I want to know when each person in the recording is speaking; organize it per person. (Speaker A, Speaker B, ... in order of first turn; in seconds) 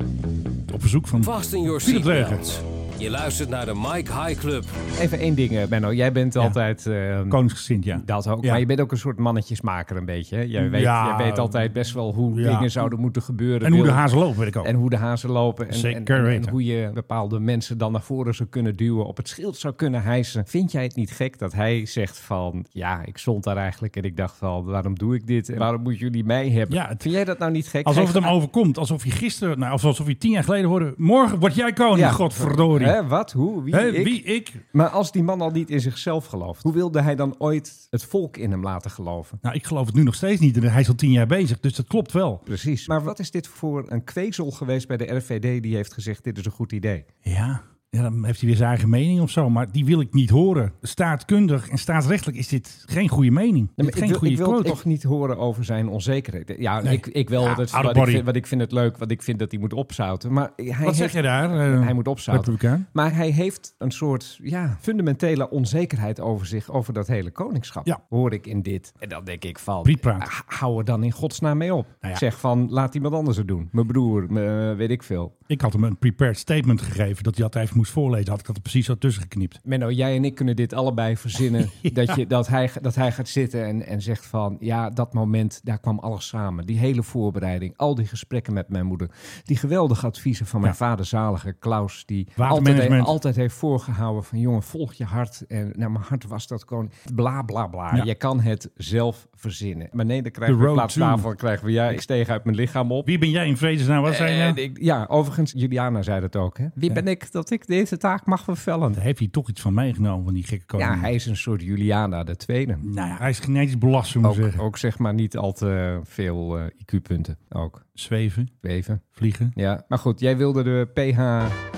Speaker A: 0.7-2.5, 7.3-8.6, 10.6-11.6, 12.3-12.9, 13.6-14.7, 15.7-16.6, 26.7-27.1, 27.8-33.0, 33.7-34.6, 39.4-42.4, 47.2-54.8, 56.8-58.2, 60.8-62.9, 69.8-70.3, 75.5-79.6, 81.5-81.9, 92.4-93.2, 100.5-101.2, 103.0-104.6, 108.9-111.1, 112.8-114.6, 118.0-118.5, 119.2-119.5
Speaker B: 1.1-4.8
Speaker C: 4.9-7.4, 7.9-14.1, 14.6-28.3, 31.9-34.2, 34.7-39.4, 42.5-47.0, 53.8-75.3, 79.6-103.1, 104.1-109.0, 110.8-112.9, 114.2-117.8, 118.6-119.0, 119.5-121.5